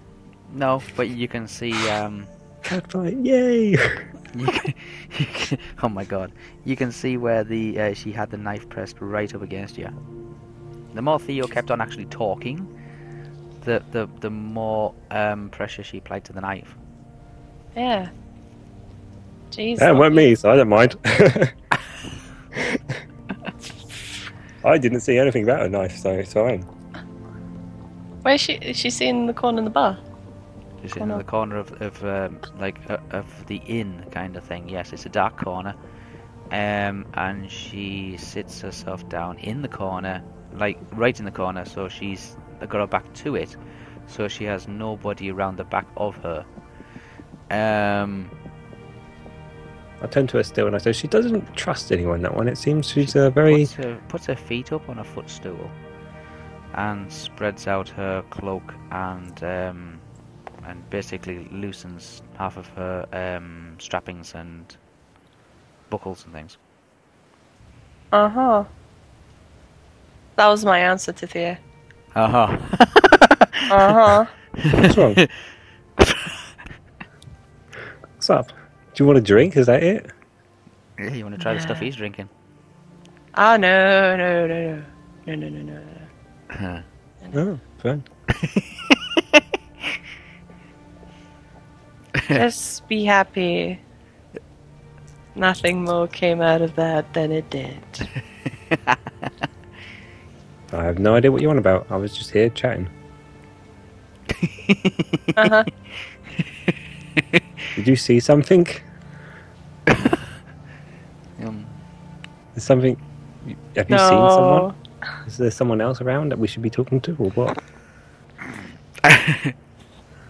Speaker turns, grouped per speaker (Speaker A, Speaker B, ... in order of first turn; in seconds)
Speaker A: 0.5-2.3, 4.3-9.9, 10.9-12.7, 13.6-16.8, 30.8-35.8, 36.5-46.5, 47.5-48.3, 53.0-55.8, 56.7-60.0, 60.6-64.8, 65.9-66.6, 72.2-75.3, 76.0-76.6, 81.0-82.3, 86.5-86.8, 88.3-90.0, 92.2-92.4, 98.7-99.0, 104.3-105.6, 106.3-107.6, 109.9-110.3, 111.4-111.8, 119.0-119.6
Speaker B: 2.6-4.1, 19.8-21.6, 22.6-22.8, 24.6-26.7, 50.0-53.7, 74.8-75.2, 78.2-80.1, 87.3-88.0, 100.7-102.9, 107.8-108.8, 112.5-114.7, 115.3-117.6
Speaker C: 17.8-18.1, 19.5-20.3, 28.2-30.0, 68.1-68.7, 70.4-71.6, 73.7-74.3, 81.4-81.9, 83.3-86.1, 92.3-93.8, 95.3-98.1, 105.4-105.7, 113.9-114.8